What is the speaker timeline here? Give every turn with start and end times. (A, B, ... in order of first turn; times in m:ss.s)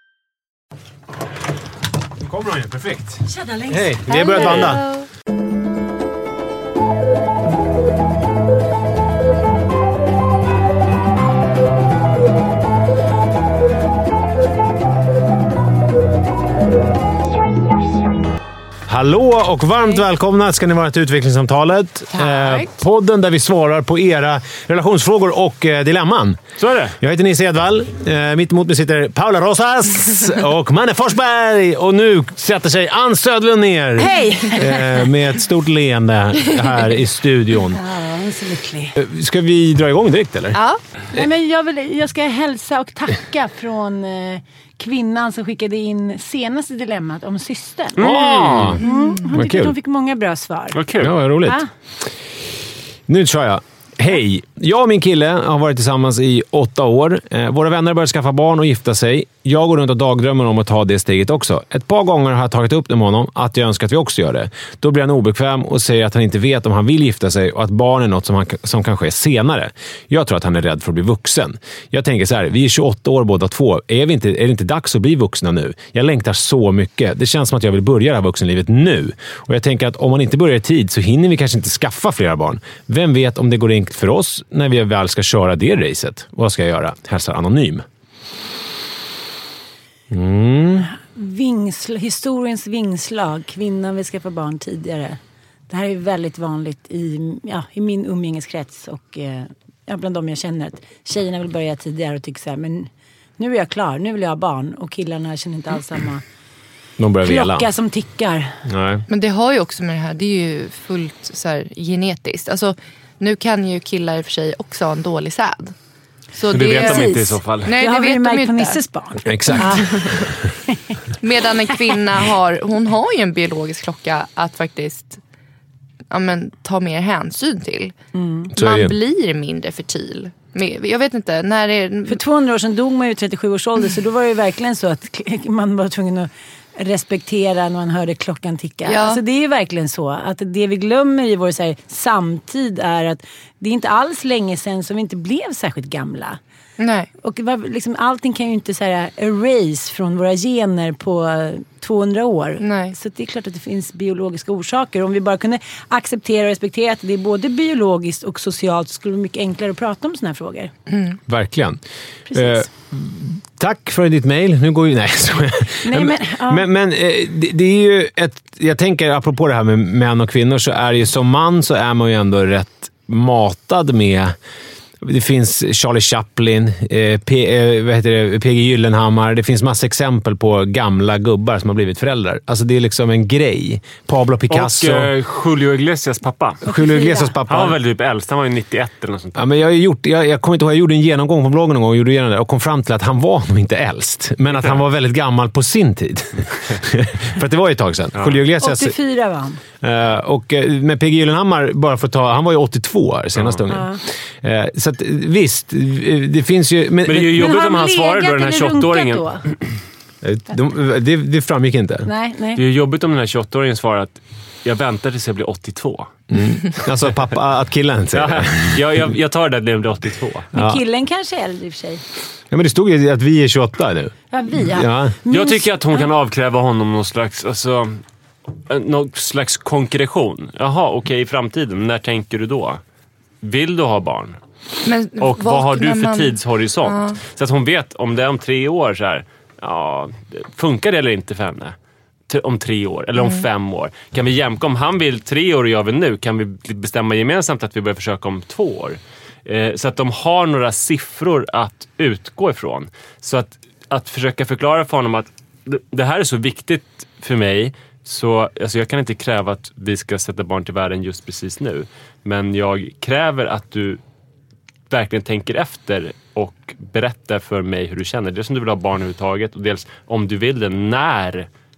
0:02.2-0:04.8 A
0:03.3-0:04.8 B
0:04.2-0:04.8 C
0:18.8-0:26.4 A
0:22.1-0:22.7 C
0:26.6-0:27.0 D
0:27.0-0:37.8 A
0:34.0-0:34.9 B
0:37.7-0:38.9 B
0:39.0-0:40.6 A
0:40.5-0:40.8 C
0:41.1-0:48.0 B
0:48.0-0:48.8 D
0:48.0-0:49.7 A
0:48.8-0:49.2 C
0:48.8-0:50.8 B
0:50.7-0:51.1 D
0:51.0-0:51.6 A
0:53.1-1:27.8 A
1:30.1-1:30.9 A
1:30.9-1:46.2 B
1:47.0-1:47.7 A
1:47.2-1:48.6 B
1:48.6-1:49.0 A
1:49.1-1:55.7 C
1:56.3-1:58.8 C
1:56.5-1:57.7 D
1:56.7-2:01.0 B
1:59.3-2:00.4 A
1:59.5-2:00.2 C
2:01.2-2:05.2 C
2:06.1-2:07.9 C
2:08.1-2:08.5 B
2:08.5-2:12.2 C
2:08.5-2:08.9 A
2:12.1-2:26.4 B
2:18.8-2:19.2 C
2:26.8-2:27.1 C
2:27.2-2:40.7 B
2:32.6-2:32.9 C
2:40.9-2:41.2 C
2:41.3-2:41.8 A
2:42.3-2:42.6 B
2:42.3-2:54.4 A
2:45.8-2:46.7 B
2:55.0-3:05.1 A
3:04.5-3:06.6 D
3:06.6-3:07.8 A
3:06.6-3:07.3 B
3:07.5-3:09.4 D
3:09.3-3:19.0 A
3:18.6-3:19.6 B
3:19.8-3:27.5 A
3:23.7-3:24.0 B
3:27.0-3:29.6 D
3:27.3-3:29.4 B
3:30.2-3:32.1 A
3:32.0-3:32.6 B
3:32.6-3:36.1 D
3:36.3-3:39.0 A
3:38.1-3:40.5 D
3:40.5-3:40.8 A
3:40.5-3:42.0 B
3:42.5-3:45.2 A
3:44.3-3:46.0 B
3:45.3-3:48.0 D
3:48.7-3:52.8 D
3:53.4-3:54.4 D
3:54.8-3:57.2 C
3:55.2-4:01.8 D
4:02.3-4:24.0 D
4:03.2-4:03.4 C
4:24.9-4:31.5 D